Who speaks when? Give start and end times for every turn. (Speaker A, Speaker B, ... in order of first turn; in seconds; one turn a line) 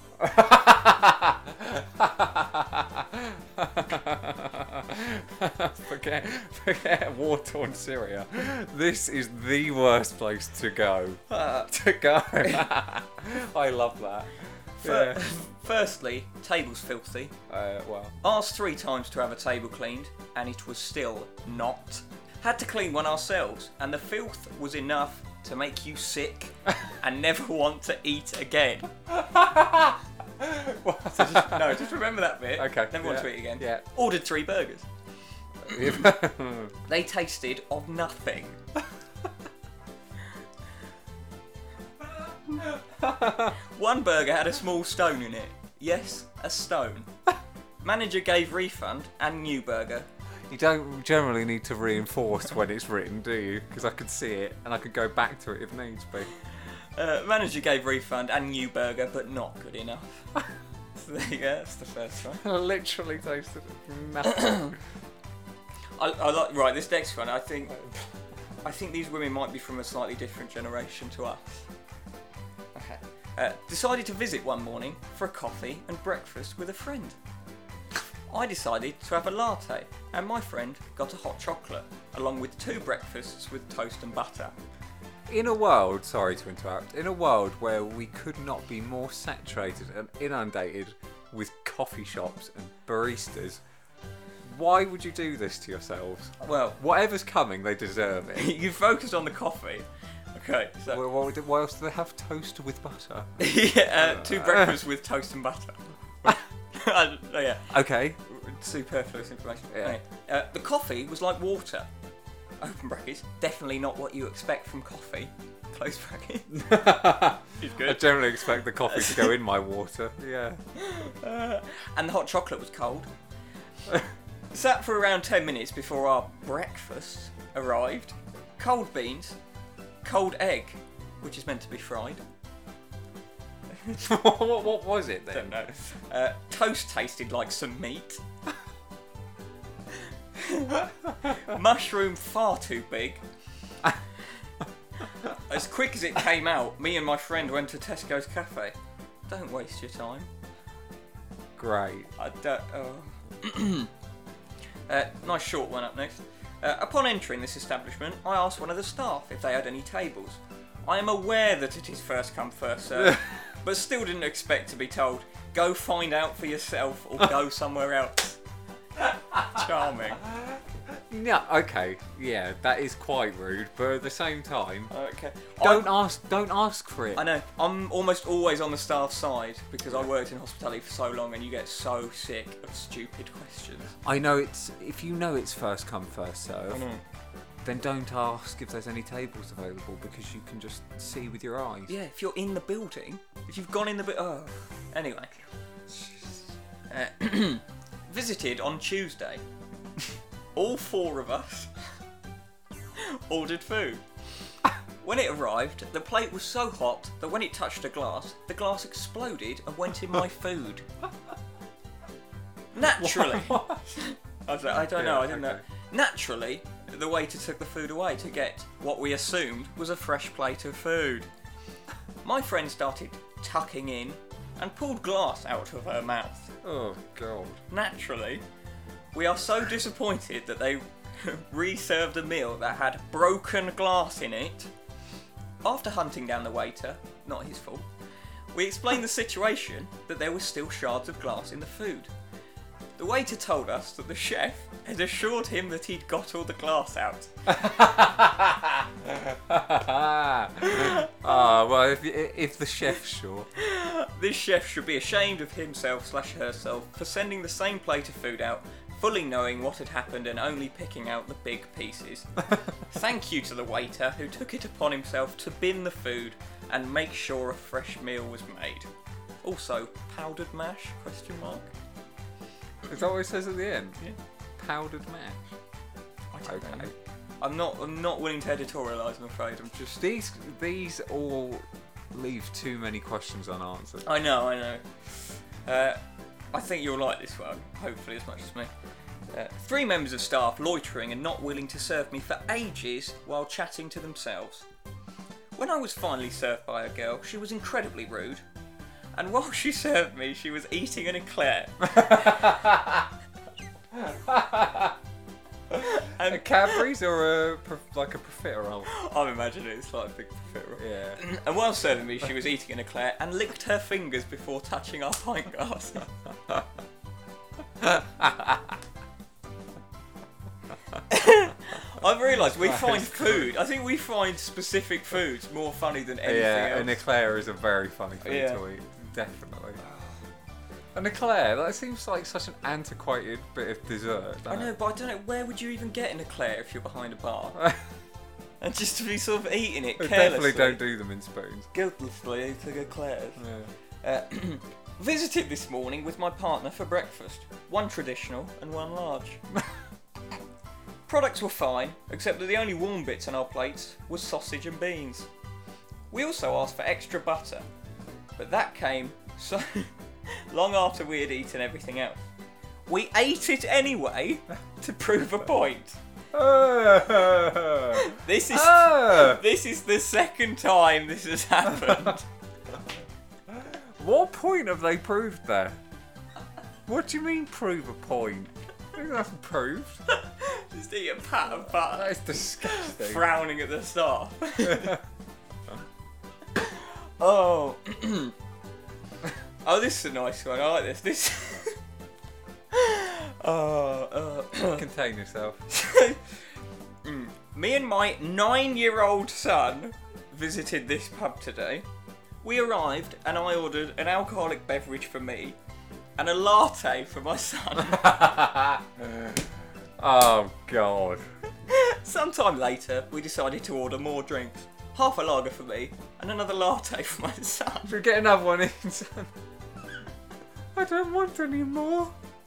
Speaker A: 0.2-15.3
Speaker B: 14.8-17.4
Speaker A: 17.5-18.1
Speaker B: 18.2-28.9
Speaker A: 29.1-31.9
Speaker B: 31.1-34.9
Speaker A: 32.6-33.8
Speaker A: 35.6-36.8
Speaker B: 36.9-38.6
Speaker A: 42.9-43.6
Speaker B: 43.5-47.1
Speaker B: 47.8-50.1
Speaker A: 50.5-56.3
Speaker B: 57.0-60.4
Speaker B: 60.9-62.4
Speaker A: 62.4-64.8
Speaker B: 64.2-64.7
Speaker B: 66.0-67.8
Speaker A: 67.7-68.2
Speaker B: 68.6-71.6
Speaker B: 72.7-77.2
Speaker B: 78.3-84.5
Speaker A: 85.3-93.6
Speaker A: 94.4-98.6
Speaker B: 96.4-96.8
Speaker B: 98.3-101.0
Speaker A: 100.9-104.8
Speaker B: 103.4-107.7
Speaker A: 107.7-108.2
Speaker B: 108.3-111.9
Speaker A: 109.7-110.0
Speaker B: 112.6-116.7
Speaker A: 116.5-120.6
Speaker B: 117.6-119.3
Speaker B: 120.7-123.1
Speaker B: 124.5-129.4
Speaker B: 130.0-132.2
Speaker A: 134.0-135.7
Speaker B: 135.3-138.2
Speaker B: 140.3-143.2
Speaker B: 145.2-148.8
Speaker B: 149.3-150.3
Speaker A: 151.6-152.1
Speaker B: 152.2-153.9
Speaker B: 154.9-168.4
Speaker B: 169.3-170.2
Speaker A: 170.2-174.9
Speaker B: 174.9-175.9
Speaker A: 175.6-177.3
Speaker B: 177.1-183.9
Speaker A: 184.0-186.9
Speaker B: 186.7-187.0
Speaker A: 187.6-191.9
Speaker B: 191.9-195.3
Speaker B: 196.9-199.4
Speaker B: 200.5-201.7
Speaker B: 202.9-204.0
Speaker B: 205.0-210.8
Speaker B: 212.7-221.3
Speaker A: 212.8-213.8
Speaker A: 214.7-215.6
Speaker B: 222.2-226.5
Speaker A: 226.6-227.6
Speaker B: 227.7-228.4
Speaker B: 229.1-234.7
Speaker B: 235.6-237.9
Speaker B: 238.5-242.1
Speaker B: 243.0-247.3
Speaker A: 247.5-253.5
Speaker B: 250.7-251.3
Speaker B: 253.6-262.3
Speaker B: 262.9-268.9
Speaker B: 269.4-271.7
Speaker A: 272.8-274.0
Speaker A: 274.6-275.6
Speaker B: 276.3-279.8
Speaker A: 276.4-276.9
Speaker A: 279.7-284.1
Speaker B: 284.0-284.9
Speaker B: 285.6-286.0
Speaker B: 286.5-288.7
Speaker B: 289.3-294.6
Speaker B: 295.5-298.4
Speaker B: 299.1-302.5
Speaker A: 301.9-303.1
Speaker A: 303.9-305.0
Speaker A: 305.7-308.9
Speaker B: 305.8-306.9
Speaker B: 308.9-316.1
Speaker A: 310.8-311.2
Speaker A: 317.8-318.8
Speaker B: 321.1-327.0
Speaker A: 322.6-323.5
Speaker A: 326.2-329.8
Speaker B: 328.2-328.6
Speaker A: 330.9-334.7
Speaker B: 334.5-337.6
Speaker A: 337.6-337.8
Speaker B: 338.6-340.8
Speaker A: 340.0-341.7
Speaker B: 341.7-343.4
Speaker A: 343.4-343.7
Speaker B: 344.0-349.4
Speaker B: 351.1-355.3
Speaker B: 356.1-357.6
Speaker B: 358.4-362.2
Speaker B: 362.9-366.0
Speaker A: 366.3-369.4
Speaker B: 367.9-372.3
Speaker A: 373.5-375.8
Speaker A: 376.9-380.0
Speaker B: 380.1-385.0
Speaker A: 381.5-383.3
Speaker A: 384.6-385.0
Speaker B: 386.6-388.3
Speaker B: 389.6-391.8
Speaker B: 392.7-394.9
Speaker A: 394.6-395.6
Speaker B: 395.7-396.4
Speaker B: 397.0-401.9
Speaker B: 402.4-405.6
Speaker B: 406.2-408.1
Speaker A: 407.8-411.3
Speaker B: 411.7-418.0
Speaker A: 417.9-419.3
Speaker A: 420.7-422.1